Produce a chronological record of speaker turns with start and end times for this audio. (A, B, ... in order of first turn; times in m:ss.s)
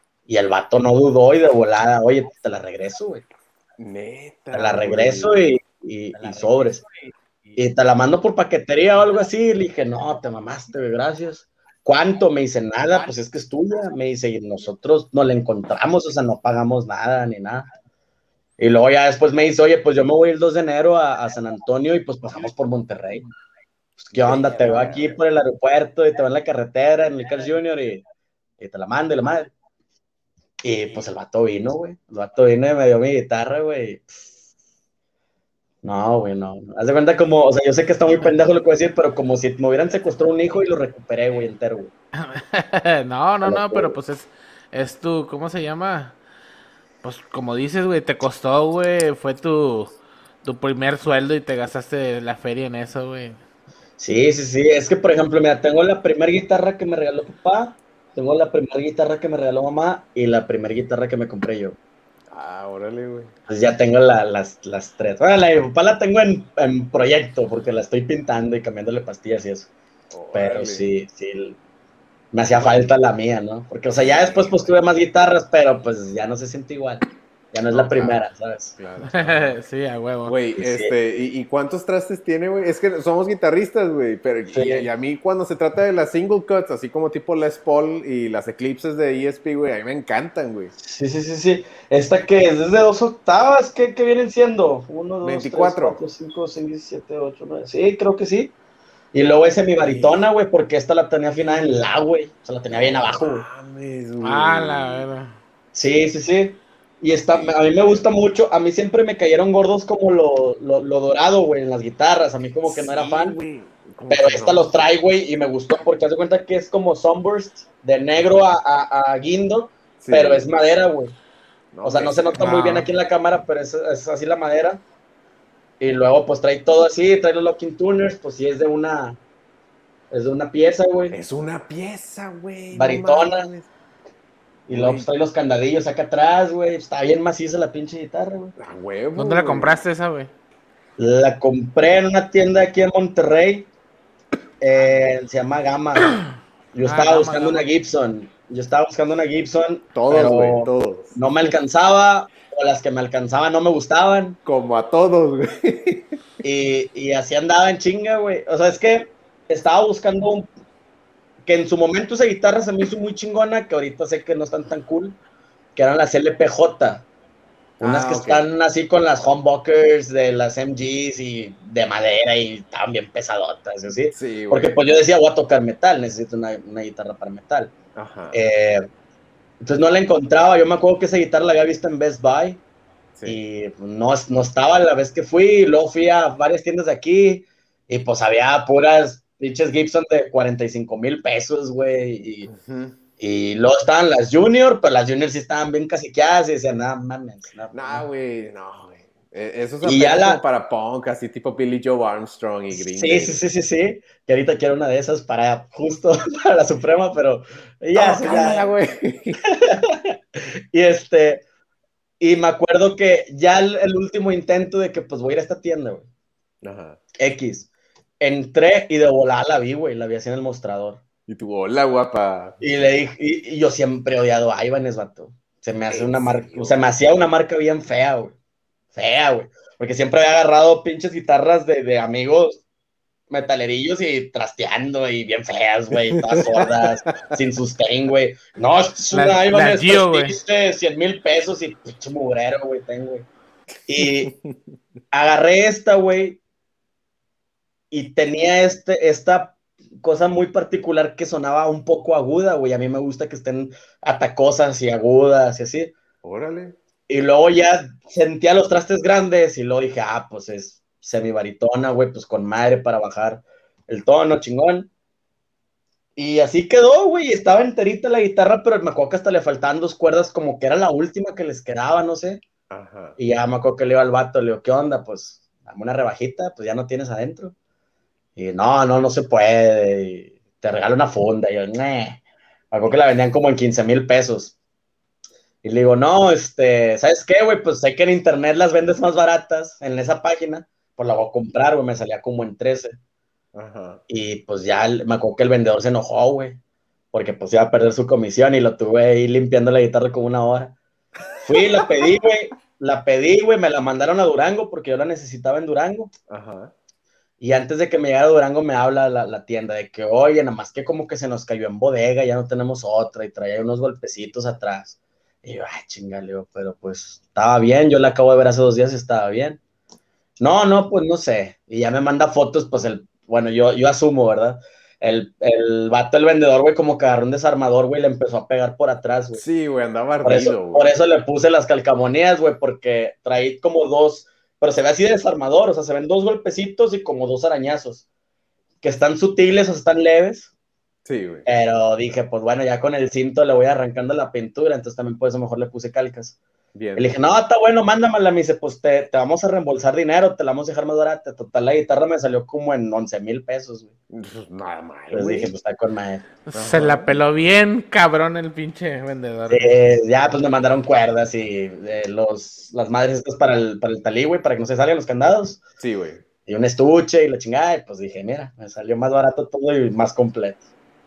0:00.3-0:03.2 A
0:03.8-0:05.4 B
0:04.5-0:06.8 A
0:07.6-0:17.7 A
0:18.6-0:23.2 A
0:24.0-0:28.0 A
0:24.1-0:25.1 B
0:28.6-0:29.5 A
0:30.6-0:34.3 A
0:35.8-0:41.9 A
0:42.2-0:46.2 C
0:43.4-0:43.9 A
0:47.0-0:53.4 C
0:54.0-1:01.8 A
1:02.3-1:03.3 B
1:03.5-1:09.7 A
1:10.1-1:10.8 B
1:10.3-1:11.6 A
1:12.3-1:18.7 A
1:14.0-1:14.8 B
1:17.7-1:18.2 B
1:18.8-1:19.6 B
1:19.1-1:20.4 C
1:20.2-1:30.7 B
1:20.6-1:20.9 A
1:24.5-1:24.9 A
1:30.8-1:38.5 A
1:35.2-1:36.0 B
1:39.1-1:43.4 A
1:39.8-1:40.2 B
1:42.7-1:45.0 B
1:44.2-1:45.3 C
1:45.7-1:53.4 A
1:47.3-1:48.0 B
1:52.6-1:54.7 B
1:54.1-2:01.1 A
2:00.0-2:00.5 B
2:01.7-2:02.9 B
2:01.8-2:04.8 A
2:05.8-2:09.2 A
2:10.1-2:11.1 A
2:11.1-2:13.7 B
2:12.7-2:13.5 A
2:14.7-2:18.5 A
2:14.7-2:15.1 B
2:18.6-2:19.8 B
2:19.2-2:20.3 C
2:21.0-2:23.7 A
2:24.6-2:26.2 A
2:26.7-2:34.4 A
2:26.8-2:27.7 C
2:29.9-2:31.1 B
2:34.4-2:36.1 B
2:36.4-2:40.5 A
2:41.4-2:45.2 A
2:45.7-2:47.0 A
2:47.8-2:57.7 A
2:47.8-2:48.4 B
2:54.1-2:54.7 B
2:57.9-2:58.4 B
2:58.3-2:58.8 A
2:59.6-3:02.6 A
3:03.2-3:12.5 A
3:12.5-3:13.0 B
3:13.2-3:18.1 A
3:17.7-3:23.3 B
3:19.8-3:20.4 A
3:22.7-3:28.7 A
3:27.9-3:29.4 B
3:29.5-3:31.4 A
3:32.2-3:36.0 A
3:36.6-3:37.0 B
3:37.2-3:37.7 A
3:38.2-3:41.0 A
3:41.3-3:42.6 B
3:42.6-3:48.3 A
3:45.9-3:46.9 B
3:48.9-3:52.6 A
3:53.3-4:03.3 A
3:56.1-3:57.3 B
3:59.1-4:00.4 C
4:03.9-4:04.3 A
4:04.0-4:04.7 B
4:05.1-4:06.4 A
4:07.9-4:15.9 A
4:16.2-4:16.8 B
4:17.1-4:24.9 A
4:26.2-4:32.4 A
4:32.7-4:33.2 B
4:33.2-4:37.5 A
4:38.4-4:44.5 A
4:45.6-4:53.0 A
4:53.5-4:54.0 B
4:54.1-4:56.6 A
4:57.1-5:00.8 A
5:01.4-5:06.1 A
5:01.6-5:02.1 B
5:06.3-5:06.7 B
5:07.4-5:19.6 A
5:20.4-5:29.4 A
5:29.3-5:30.9 B
5:30.2-5:38.0 A
5:38.8-5:40.5 A
5:41.0-5:41.4 B
5:41.4-5:46.4 A
5:46.7-5:47.2 B
5:46.9-5:53.9 A
5:54.1-5:55.5 B
5:55.1-5:56.2 A
5:56.5-5:59.8 C
5:56.5-5:57.1 B
5:59.5-6:05.6 A
6:05.8-6:06.2 B
6:06.4-6:10.6 A